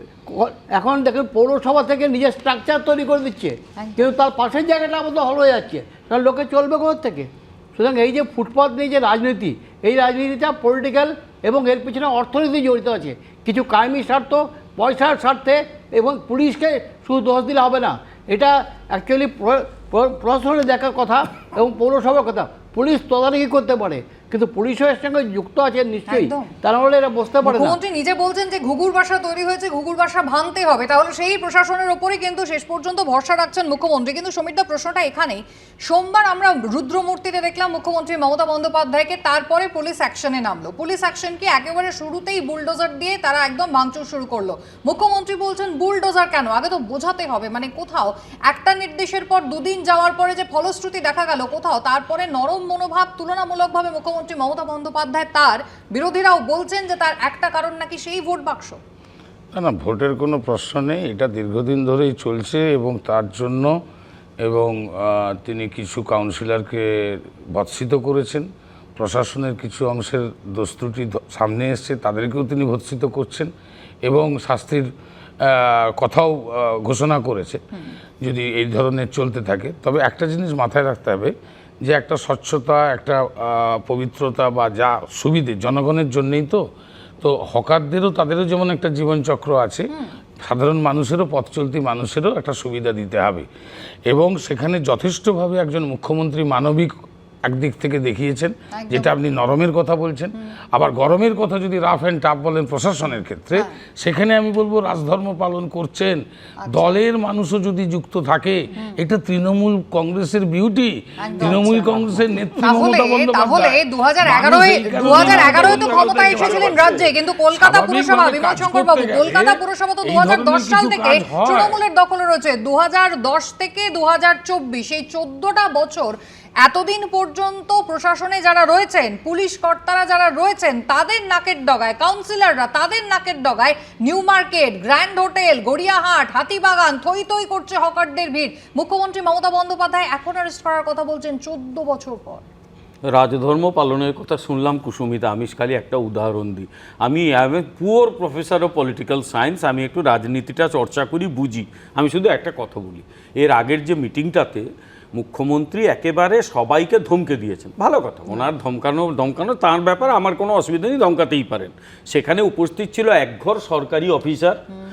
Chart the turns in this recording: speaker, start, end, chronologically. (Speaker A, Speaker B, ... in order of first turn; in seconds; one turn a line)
Speaker A: 0.2-27.8
Speaker B: 3.8-4.0
Speaker B: 26.1-26.5
Speaker B: 27.4-58.8
Speaker C: 59.5-63.7
Speaker C: 64.4-66.8
Speaker C: 67.5-73.5
Speaker C: 74.0-74.9
Speaker C: 75.4-77.6
Speaker C: 78.2-81.3
Speaker C: 81.8-86.6
Speaker C: 87.2-89.9
Speaker C: 90.4-93.5
Speaker C: 94.1-96.9
Speaker C: 97.5-106.2
Speaker B: 98.7-99.1
Speaker B: 106.6-106.9
Speaker C: 106.7-121.8
Speaker B: 111.2-142.4
Speaker D: 115.5-117.0
Speaker D: 143.1-154.6
Speaker D: 155.2-164.6